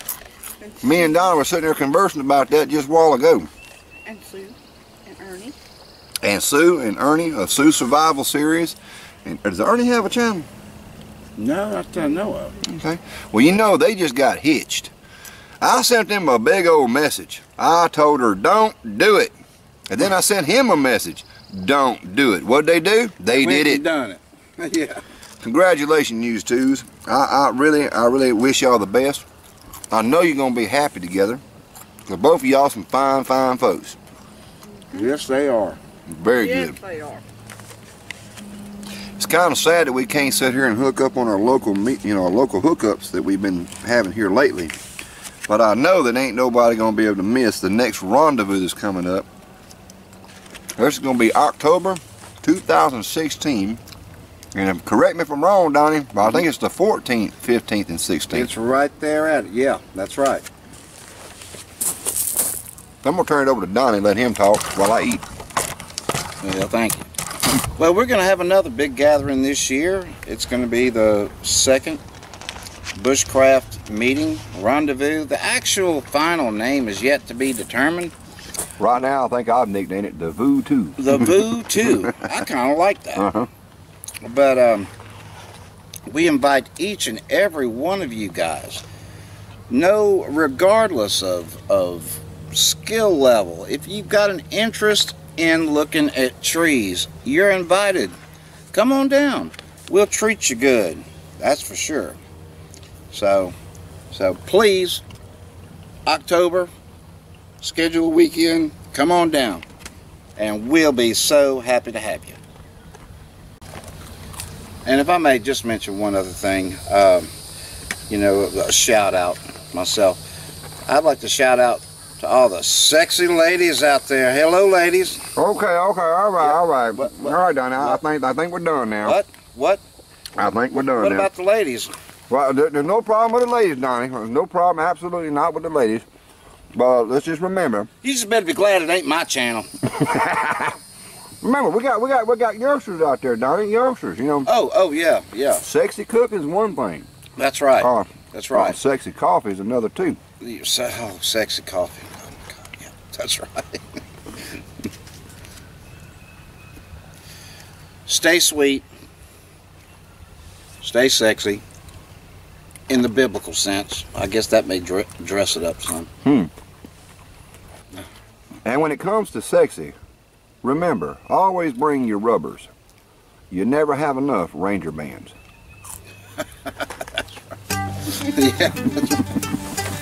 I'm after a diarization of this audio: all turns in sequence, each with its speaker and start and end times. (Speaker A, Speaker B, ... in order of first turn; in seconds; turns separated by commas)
Speaker A: 0.8-3.5, Speaker B: 4.0-5.6, Speaker A: 6.2-10.5, Speaker C: 11.4-12.6, Speaker A: 12.6-14.9, Speaker A: 15.6-19.3, Speaker A: 19.9-23.8, Speaker C: 23.3-25.0, Speaker A: 25.4-29.2, Speaker A: 29.9-31.4, Speaker A: 32.1-34.0, Speaker C: 34.9-35.8, Speaker A: 36.1-36.8, Speaker B: 36.4-37.2, Speaker A: 39.2-44.8, Speaker A: 45.5-49.3, Speaker A: 50.8-53.8, Speaker A: 54.5-58.5, Speaker C: 58.3-60.5, Speaker A: 63.0-65.2, Speaker C: 66.4-67.1, Speaker C: 67.7-72.0, Speaker C: 72.9-78.1, Speaker A: 78.8-82.3, Speaker C: 81.0-83.3, Speaker A: 83.2-83.5, Speaker C: 84.2-84.9, Speaker C: 86.1-88.8, Speaker C: 89.7-98.2, Speaker C: 98.7-102.2, Speaker C: 103.1-103.6, Speaker C: 104.1-105.0, Speaker C: 106.1-106.7, Speaker C: 107.6-109.7, Speaker C: 110.4-112.4, Speaker C: 114.8-117.3, Speaker C: 118.1-120.2, Speaker C: 120.8-125.2, Speaker A: 125.4-129.2, Speaker C: 126.4-128.0, Speaker C: 129.0-129.8, Speaker A: 130.4-131.3, Speaker C: 130.4-131.9, Speaker A: 132.3-136.1, Speaker A: 136.7-137.9, Speaker C: 138.0-139.7, Speaker A: 139.9-140.8, Speaker A: 141.4-144.5, Speaker C: 144.5-145.7, Speaker A: 145.6-147.1, Speaker C: 147.4-148.8, Speaker A: 147.8-150.2, Speaker C: 150.4-154.0, Speaker C: 158.1-158.9, Speaker C: 160.8-161.6, Speaker C: 162.9-166.1, Speaker A: 166.2-166.5, Speaker A: 168.7-169.9, Speaker A: 170.6-172.7, Speaker A: 173.5-175.3, Speaker C: 178.1-179.3